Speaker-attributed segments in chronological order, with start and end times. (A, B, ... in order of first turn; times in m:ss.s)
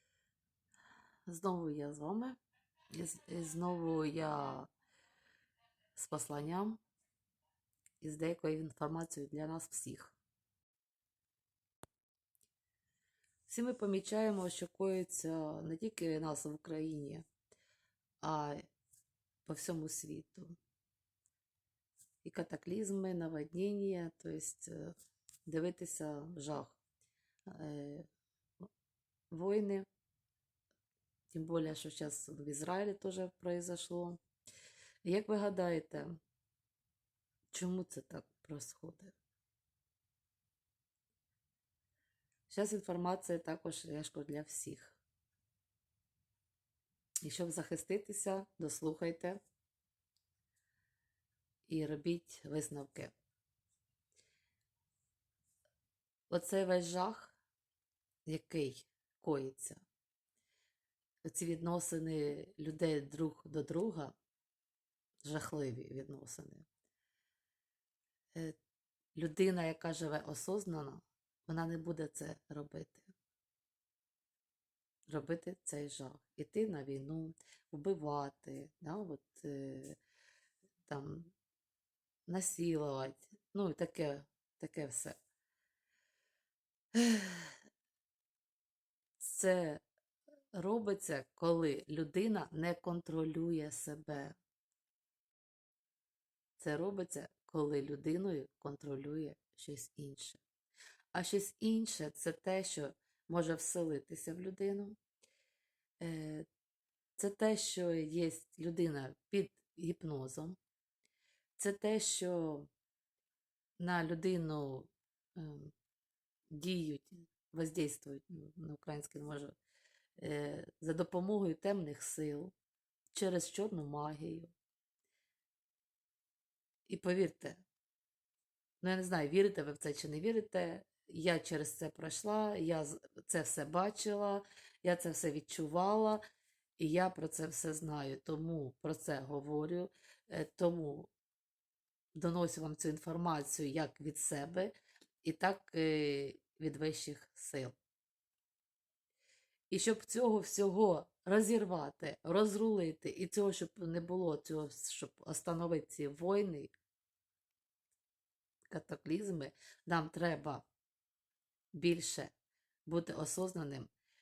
0:01.3-0:02.4 A
0:02.9-0:04.7 A
0:06.0-0:06.8 A
0:08.0-0:10.2 A
0:13.5-0:17.3 A
0:18.2-0:18.6 A
0:19.5-0:20.6 A
0:22.2-0:25.0 A
0:25.5-0:26.8 A
0:27.5-0:28.1 A
0:29.3-0:29.9 A
0:31.3-0:34.2 A
0:35.0-0:36.2 A
0:37.5-0:39.2 A
0:42.5-0:45.0 A
0:47.2-0:49.4 A
0:51.7-0:53.1 A
0:56.3-0:57.4 A
0:58.3-0:59.8 A
1:01.2-1:04.2 A
1:05.2-1:06.7 A
1:09.2-1:13.1 A
1:15.1-1:20.0 A
1:20.9-1:21.3 A
1:22.3-1:25.2 A
1:26.9-1:27.6 A
1:29.2-1:29.8 A
1:30.5-1:34.4 A
1:36.6-1:40.4 A
1:41.1-1:45.0 A
1:46.0-1:46.5 A
1:47.2-1:50.6 A
1:51.6-1:52.7 A
1:53.8-1:55.7 A
1:56.5-1:59.6 A
2:00.2-2:02.5 A
2:03.1-2:04.5 A
2:06.9-2:07.6 A
2:08.8-2:16.2 A
2:16.8-2:21.1 A
2:22.2-2:27.8 A
2:29.7-2:36.7 A
2:38.7-2:40.7 A
2:41.7-2:42.3 A
2:42.9-2:43.9 A